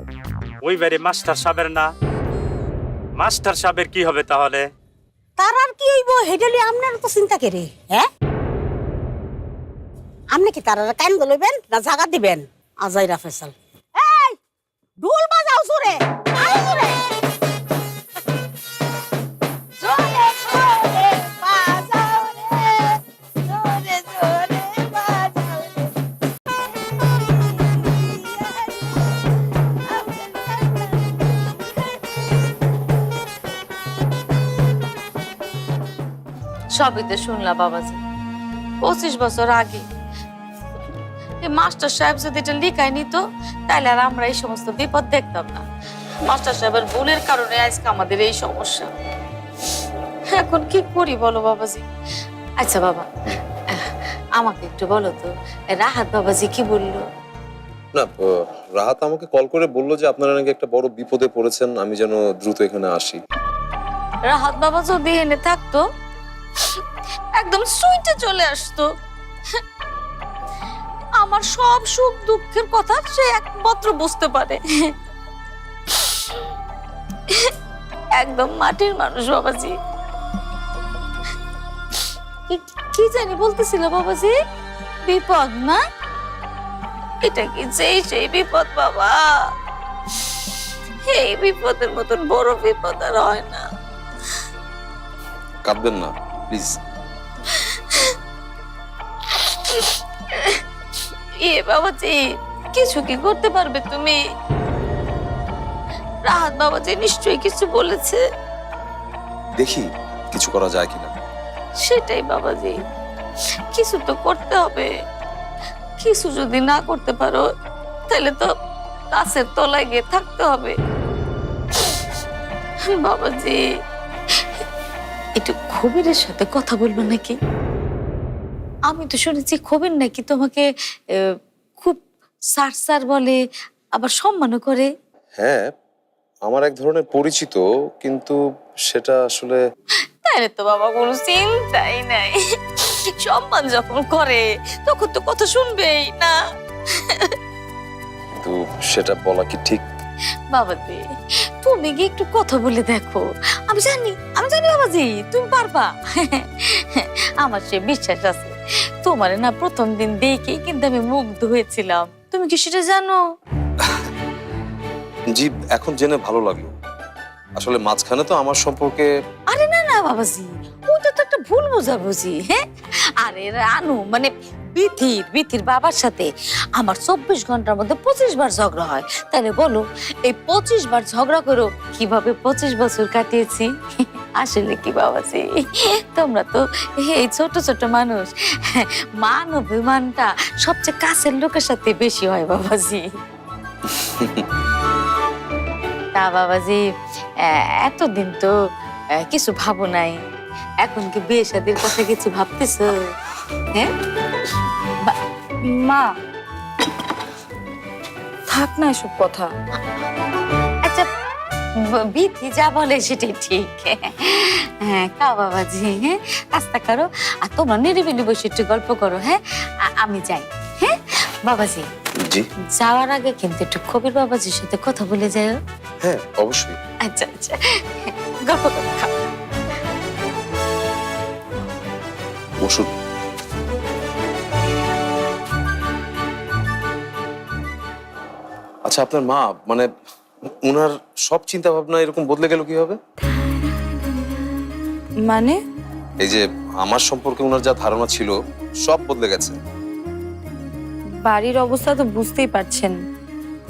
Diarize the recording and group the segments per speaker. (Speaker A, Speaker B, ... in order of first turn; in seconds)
Speaker A: 0.6-1.9, 3.2-4.7
Speaker B: 5.4-8.1, 10.3-14.4, 15.0-17.1, 19.8-25.9, 26.8-29.0, 29.9-32.0
Speaker C: 36.7-38.0, 38.8-39.9, 41.4-45.6, 46.2-48.9, 50.3-51.9, 52.6-53.1, 53.7-57.1, 64.3-65.8, 67.3-68.9, 71.2-74.9, 78.2-79.8, 82.5-84.3, 85.0-85.8, 87.2-89.5, 91.1-93.7, 97.5-98.0, 99.4-100.5, 101.4-104.2, 106.2-108.2, 111.8-112.8, 113.7-114.9, 116.0-117.5, 118.1-118.5, 119.1-120.8, 122.9-123.6, 125.4-127.4, 128.9-133.4, 133.9-134.9, 140.2-147.4, 150.5-163.2, 169.5-172.6, 173.2-193.1, 196.1-198.6, 199.1-200.2, 200.8-203.1, 211.8-221.9, 222.8-225.6, 227.0-229.1
Speaker D: 58.8-63.2, 95.6-96.7, 109.6-111.1, 135.4-135.7, 136.4-138.4, 138.9-139.6, 148.4-149.8, 165.4-166.7, 167.6-169.1, 193.9-194.4, 222.2-222.5, 226.0-226.8, 232.6-232.9, 238.9-239.9, 240.7-243.0, 246.2-249.6
Speaker E: 205.7-206.1, 208.5-209.5, 245.3-245.6, 251.2-253.0